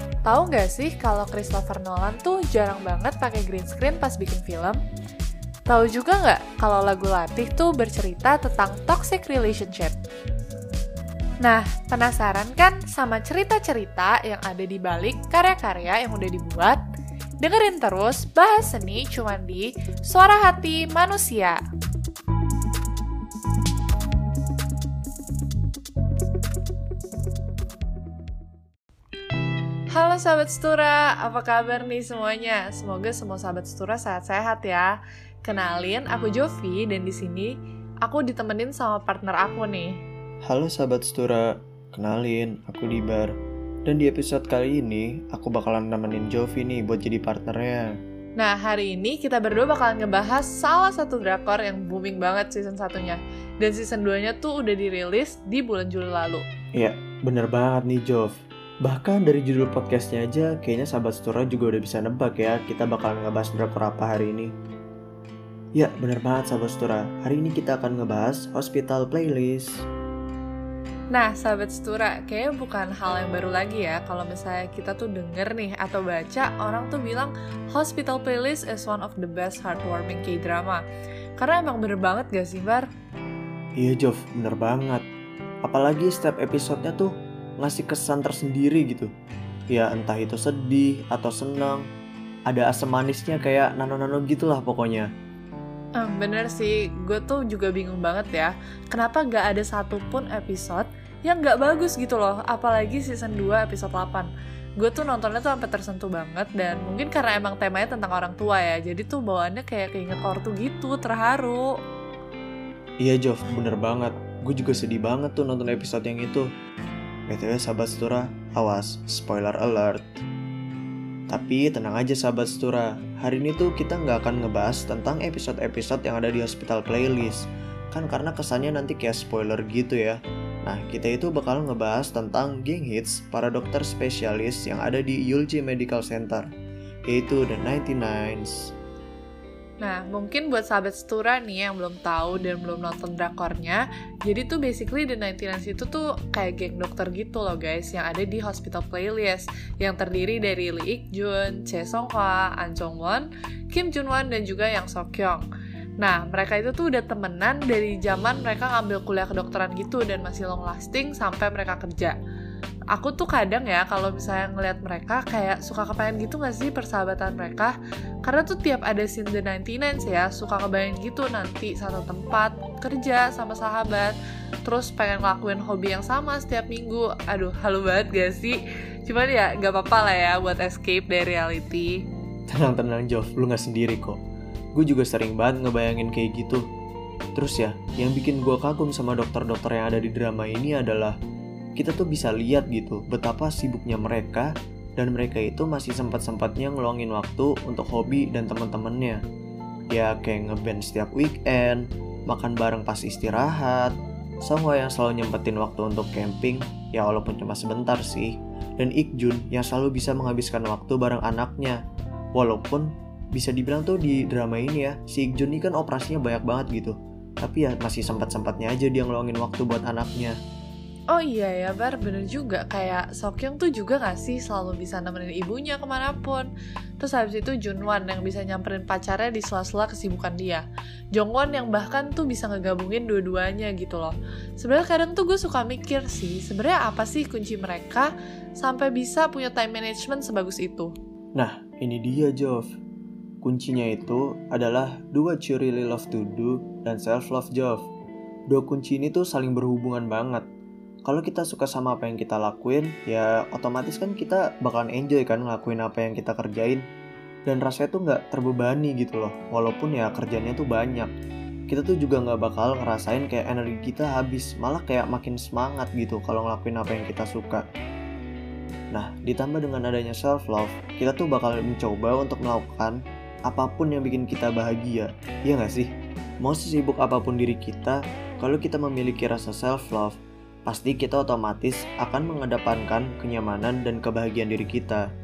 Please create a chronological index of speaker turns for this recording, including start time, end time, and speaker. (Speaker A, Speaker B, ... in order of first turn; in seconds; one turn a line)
Speaker A: 0.2-4.8
Speaker A: 5.7-9.9
Speaker A: 11.4-16.8
Speaker A: 17.4-21.6
Speaker A: 29.9-40.0
Speaker B: 40.4-47.8
Speaker A: 48.4-56.4
Speaker B: 56.8-64.5
Speaker B: 65.7-69.7
Speaker A: 71.1-80.8
Speaker A: 81.4-82.9
Speaker B: 83.8-85.0
Speaker B: 85.6-89.1
Speaker B: 89.7-91.8
Speaker B: 92.5-95.1
Speaker A: 96.0-111.7
Speaker B: 113.0-116.5
Speaker B: 117.3-120.2
Speaker B: 121.3-136.5
Speaker B: 137.1-138.7
Speaker A: 139.8-155.4
Speaker A: 156.0-162.2
Speaker A: 162.9-182.0
Speaker B: 182.5-184.2
Speaker B: 184.7-186.6
Speaker B: 187.3-191.2
Speaker B: 191.8-199.2
Speaker B: 199.9-211.8
Speaker B: 212.3-220.3
Speaker A: 221.1-226.5
Speaker A: 227.0-240.9
Speaker B: 241.3-242.7
Speaker B: 243.4-247.9
Speaker B: 248.5-250.4
Speaker B: 251.1-256.8
Speaker B: 257.4-261.1
Speaker B: 261.7-267.6
Speaker B: 268.9-275.9
Speaker B: 276.4-285.1